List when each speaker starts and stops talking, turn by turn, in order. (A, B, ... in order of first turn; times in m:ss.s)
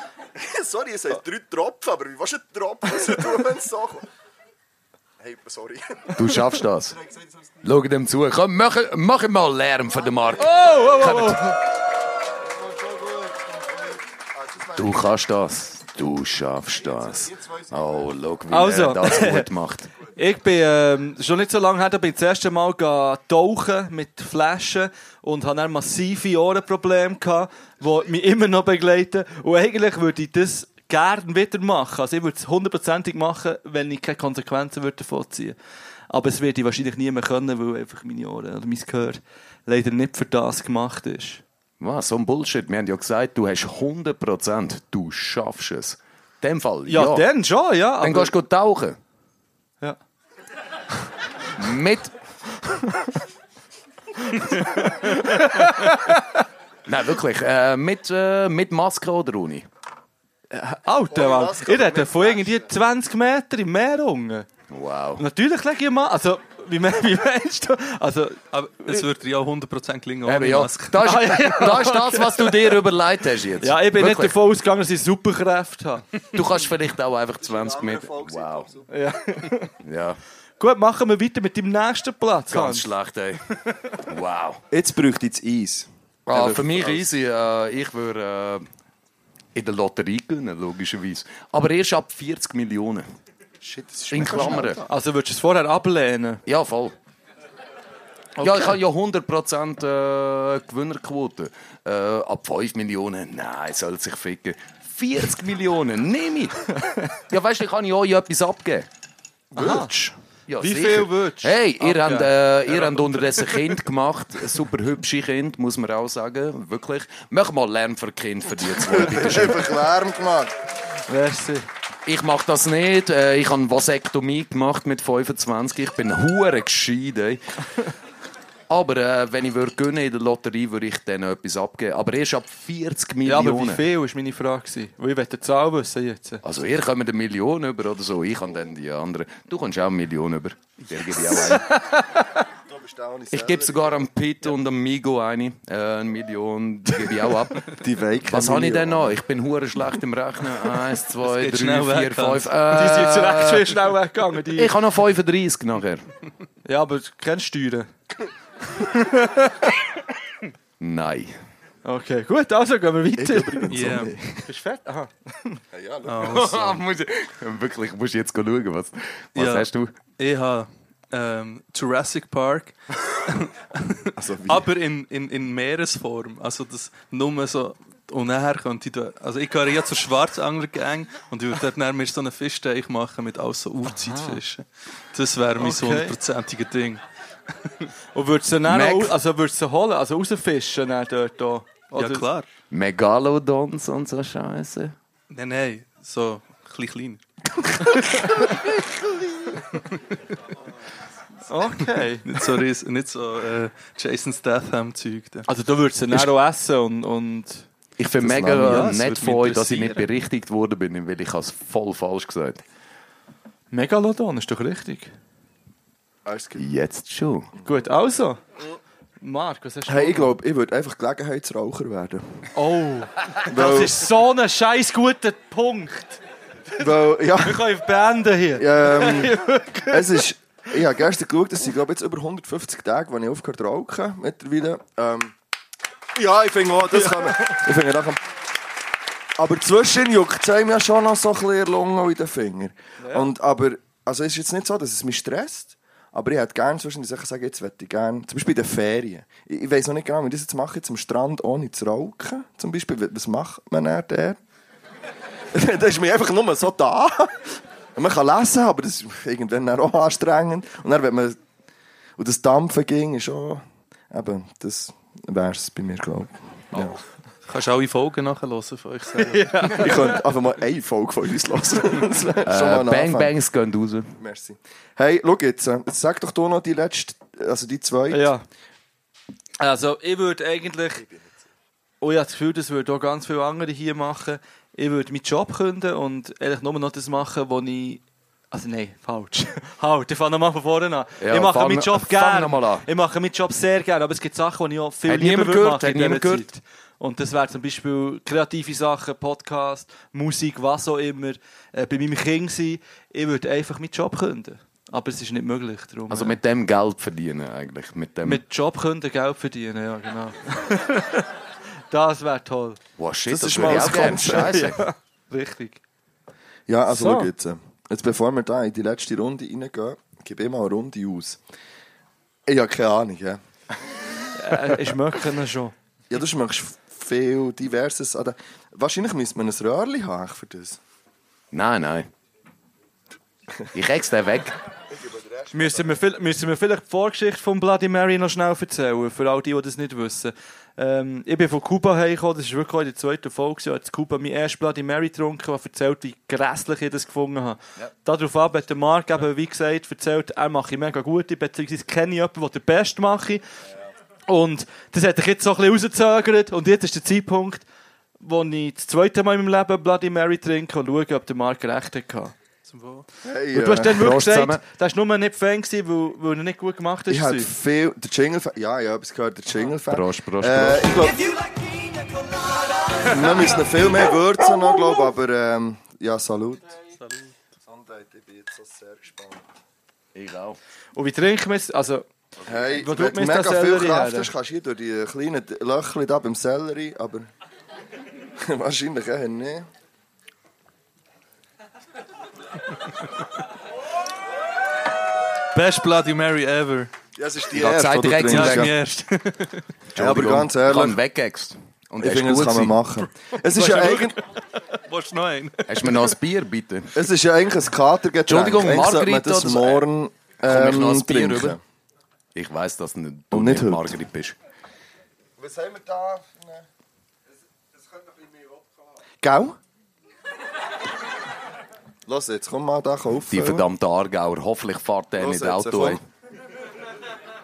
0:00.4-0:04.1 A
0:05.2-0:07.4 A
0:06.2-0:07.0 B
0:07.6-0:11.5 B
0:10.4-0:11.5 C
0:12.5-0:15.1 A
0:14.8-0:19.9 B
0:18.5-0:19.5 C
0:20.0-0:35.6 C
0:36.1-0:41.4 C
0:41.8-0:47.3 B
0:46.9-0:48.3 C
0:48.0-0:49.0 B
0:51.6-0:52.1 B
0:54.3-0:56.4 C
0:56.9-0:59.7 B
1:00.5-1:04.5 C
1:01.1-1:02.7 A
1:04.7-1:05.2 B
1:05.2-1:09.0 C
1:08.5-1:10.9 D
1:10.2-1:14.4 B
1:11.0-1:12.5 C
1:13.6-1:16.2 C
1:16.3-1:18.7 B
1:17.4-1:18.9 A
1:18.9-1:19.7 C
1:19.8-1:20.2 B
1:20.6-1:22.9 C
1:22.5-1:24.6 B
1:24.7-1:27.1 A
1:26.3-1:28.7 B
1:29.6-1:33.1 B
1:33.6-1:34.9 A
1:34.1-1:34.8 B
1:34.9-1:36.4 C
1:36.5-1:37.0 B
1:38.4-1:46.6 B
1:46.8-1:47.1 C
1:47.3-1:48.9 B
1:49.5-1:50.1 A
1:49.6-1:49.9 C
1:50.5-1:59.7 B
1:50.6-1:52.3 C
1:58.6-2:00.6 A
2:01.1-2:01.7 C
2:02.1-2:07.4 B
2:08.7-2:13.8 B
2:13.2-2:16.4 C
2:16.4-2:21.7 B
2:21.2-2:22.4 C
2:22.7-2:24.0 A
2:23.3-2:33.7 B
2:27.7-2:29.2 A
2:31.2-2:33.0 D
2:32.7-2:34.8 C
2:34.5-2:36.1 B
2:36.7-2:37.9 C
2:38.8-2:39.7 C
2:40.8-2:41.4 B
2:41.8-2:43.7 C
2:43.2-2:44.5 A
2:43.7-2:44.1 D
2:44.4-2:45.6 C
2:45.7-2:46.7 A
2:46.0-2:46.8 D
2:46.3-2:50.0 B
2:49.4-3:07.0 D
2:54.2-2:54.7 A
3:03.9-3:04.4 C
3:05.6-3:06.1 C
3:08.1-3:12.3 C
3:08.7-3:09.2 B
3:11.9-3:12.5 D
3:12.7-3:14.9 B
3:15.3-3:17.2 D
3:17.8-3:18.2 D
3:21.5-3:22.2 C
3:22.2-3:25.5 D
3:25.5-3:27.7 C
3:28.0-3:32.6 B
3:28.2-3:28.9 A
3:28.5-3:30.0 D
3:28.6-3:30.0 C
3:33.7-3:35.1 C
3:36.3-3:36.6 A
3:36.6-3:37.5 B
3:37.6-3:38.4 C
3:39.2-3:40.3 C
3:39.9-3:42.5 A
3:42.6-3:46.2 C
3:43.5-3:44.0 A
3:46.8-3:47.7 A
3:47.4-3:50.2 C
3:48.6-3:55.4 A
3:56.2-3:58.2 A
3:59.4-4:14.4 A
4:03.0-4:03.3 C
4:15.5-4:21.4 A
4:22.2-4:27.0 A
4:27.5-4:29.7 D
4:29.3-4:30.2 C
4:29.8-4:33.3 A
4:32.4-4:34.1 B
4:34.2-4:38.3 A
4:38.1-4:38.4 C
4:39.6-4:41.0 C
4:42.0-5:06.4 C
4:51.2-4:52.8 B
4:55.1-4:56.5 B
5:06.1-5:08.4 B
5:08.2-5:11.3 C
5:11.9-5:12.8 C
5:13.0-5:14.9 B
5:13.3-5:14.8 A
5:13.8-5:15.8 C
5:16.7-5:21.4 A
5:16.9-5:17.3 C
5:22.5-5:23.4 A
5:24.4-5:25.7 C
5:26.1-5:30.8 A
5:31.5-5:32.1 B
5:33.7-5:34.6 B
5:34.9-5:36.0 A
5:35.5-5:53.4 C
5:54.3-5:57.6 C
5:58.2-6:02.4 C
6:02.6-6:03.1 D
6:03.2-6:04.0 A
6:03.5-6:07.5 C
6:03.8-6:04.6 B
6:07.1-6:11.2 A
6:09.9-6:11.0 B
6:13.0-6:16.7 A
6:17.0-6:17.3 D
6:17.7-6:19.5 A
6:20.2-6:20.6 B
6:21.0-6:22.1 C
6:22.4-6:27.3 A
6:22.7-6:24.3 C
6:28.4-6:29.7 A
6:35.5-6:36.9 D
6:37.2-6:38.7 A
6:37.5-6:38.7 B
6:38.2-6:39.6 D
6:40.0-6:42.8 B
6:40.0-6:41.0 A
6:42.0-6:44.2 A
6:43.0-6:46.2 D
6:45.7-6:46.9 B
6:47.0-6:51.6 A
6:48.3-6:49.8 B
6:50.5-6:51.6 B
6:52.4-6:54.4 B
6:53.3-6:54.0 A
6:55.4-6:56.7 A
6:59.2-6:59.6 A
7:02.1-7:03.7 A
7:03.3-7:06.0 B
7:05.2-7:06.0 A